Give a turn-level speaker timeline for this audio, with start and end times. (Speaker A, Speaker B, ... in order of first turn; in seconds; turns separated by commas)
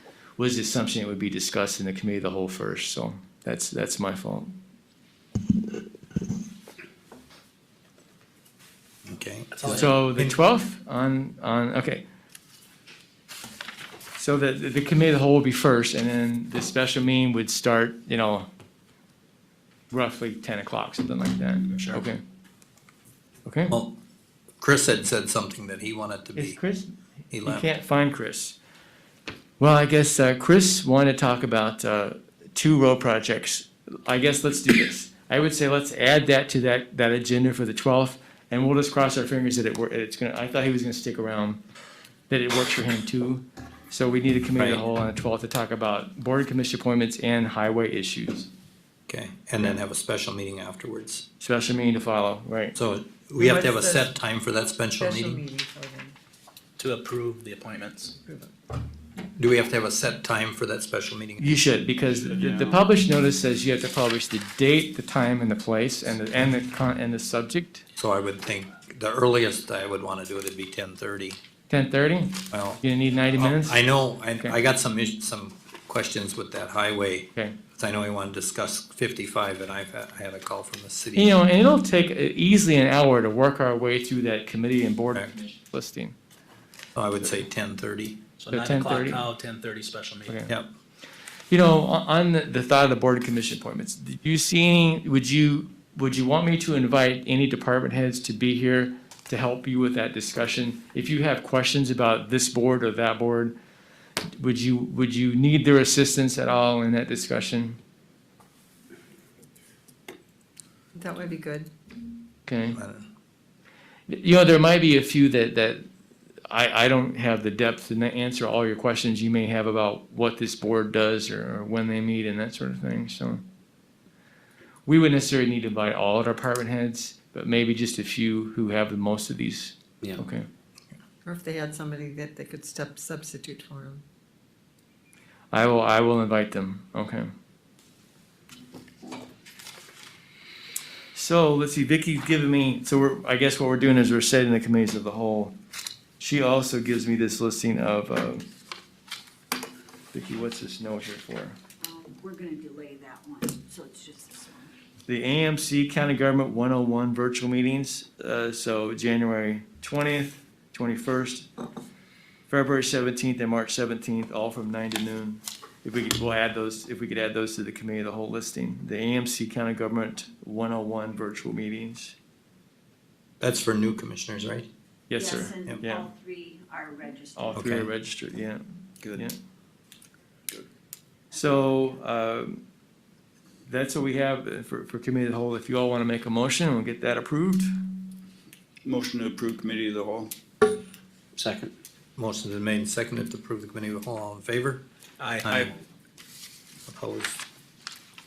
Speaker A: 0.4-4.5, Speaker B: 9.0-10.4, Speaker C: 9.5-10.0, Speaker A: 9.7-12.0, Speaker A: 14.2-18.5, Speaker A: 19.9-22.2, Speaker A: 23.4-23.7, Speaker B: 23.7-24.0, Speaker B: 24.6-26.6, Speaker A: 26.4-28.6, Speaker B: 27.3-27.7, Speaker A: 29.6-41.6, Speaker A: 42.3-48.5, Speaker B: 44.6-44.8, Speaker B: 49.1-51.3, Speaker A: 51.4-52.8, Speaker B: 52.8-55.4, Speaker D: 53.4-54.1, Speaker D: 54.9-56.1, Speaker C: 56.8-58.1, Speaker D: 58.2-58.5, Speaker B: 59.4-61.7, Speaker A: 61.4-67.9, Speaker E: 62.2-62.8, Speaker B: 68.0-71.4, Speaker A: 71.7-73.8, Speaker B: 72.5-72.8, Speaker B: 73.3-81.3, Speaker A: 81.2-86.2, Speaker B: 87.0-88.2, Speaker C: 88.4-90.5, Speaker A: 88.5-89.3, Speaker A: 91.5-103.6, Speaker A: 104.3-107.8, Speaker D: 111.0-111.7, Speaker A: 112.5-112.8, Speaker B: 112.7-113.1, Speaker A: 114.1-115.9, Speaker A: 116.5-123.4, Speaker A: 124.9-130.5, Speaker D: 131.2-134.0, Speaker A: 135.5-137.3, Speaker A: 141.1-145.5, Speaker A: 146.2-148.5, Speaker A: 150.1-151.6, Speaker F: 151.8-154.8, Speaker A: 155.1-161.5, Speaker A: 162.5-172.2, Speaker B: 173.4-174.7, Speaker A: 175.1-176.1, Speaker F: 175.1-177.6, Speaker A: 177.3-179.3, Speaker B: 177.5-177.9, Speaker A: 181.3-182.6, Speaker A: 183.7-187.7, Speaker E: 188.8-190.3, Speaker C: 191.3-191.7, Speaker B: 192.2-194.8, Speaker C: 195.2-195.7, Speaker B: 195.4-195.7, Speaker B: 196.9-197.4